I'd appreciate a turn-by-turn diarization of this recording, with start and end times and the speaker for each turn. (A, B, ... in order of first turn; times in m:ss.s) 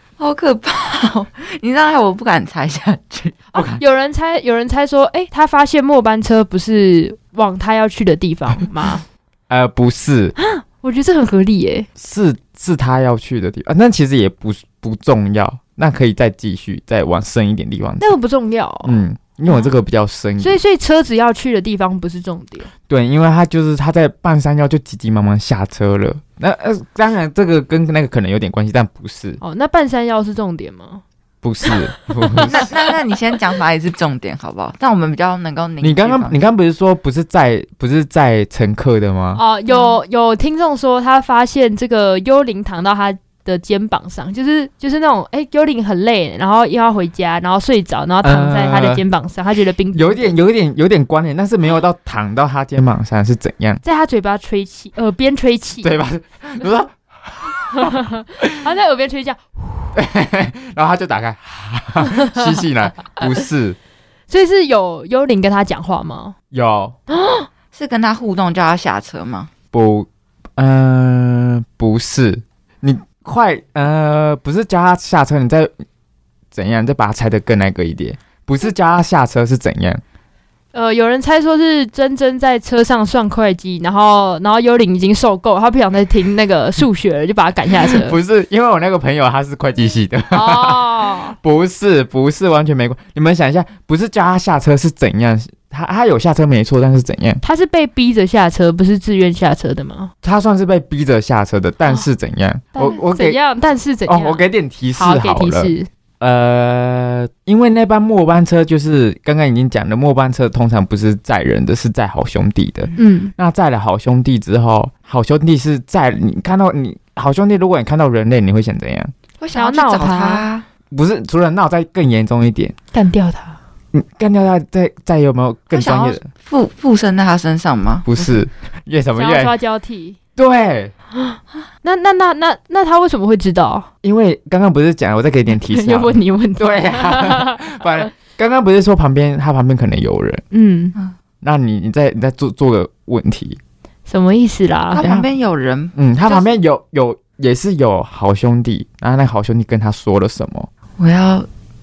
0:00.2-0:03.4 A
0:03.5-0:09.0 B
0:03.5-0:03.8 C
0:09.5-0:10.4 C
0:10.4-0:11.9 B
0:12.0-0:18.1 C
0:18.0-0:19.7 B
0:18.8-0:20.6 C
0:20.4-0:22.7 B
0:22.9-0:29.4 C
0:29.4-0:31.0 B
0:31.4-0:32.7 C
0:32.3-0:32.7 B
0:32.4-0:36.4 A
0:35.8-0:39.4 C
0:39.4-0:50.3 B
0:48.2-0:49.0 C
0:49.9-0:53.8 C
0:53.8-0:55.9 B
0:55.8-0:57.9 C
0:57.7-1:00.0 B
0:59.9-1:03.8 C
1:04.3-1:06.3 B
1:06.5-1:07.0 C
1:07.1-1:07.5 B
1:07.7-1:09.5 A
1:09.7-1:15.7 C
1:16.5-1:20.0 C
1:20.7-1:28.2 B
1:27.7-1:37.4 C
1:30.3-1:31.4 B
1:37.4-1:40.1 B
1:40.2-1:43.4 C
1:42.8-1:44.4 B
1:44.1-1:59.1 C
1:45.0-1:45.9 B
1:53.0-1:53.3 B
1:59.4-2:00.7 A
1:59.5-2:00.5 B
2:00.9-2:02.7 C
2:02.9-2:03.6 B
2:03.9-2:06.3 C
2:05.7-2:08.2 A
2:08.0-2:09.5 C
2:09.1-2:10.2 B
2:10.4-2:10.9 C
2:11.2-2:13.9 B
2:14.0-2:20.4 C
2:15.5-2:17.8 B
2:20.5-2:21.0 B
2:21.4-2:23.6 C
2:24.1-2:25.0 B
2:24.9-2:26.0 A
2:25.0-2:25.3 C
2:25.9-2:30.7 C
2:31.0-2:31.5 A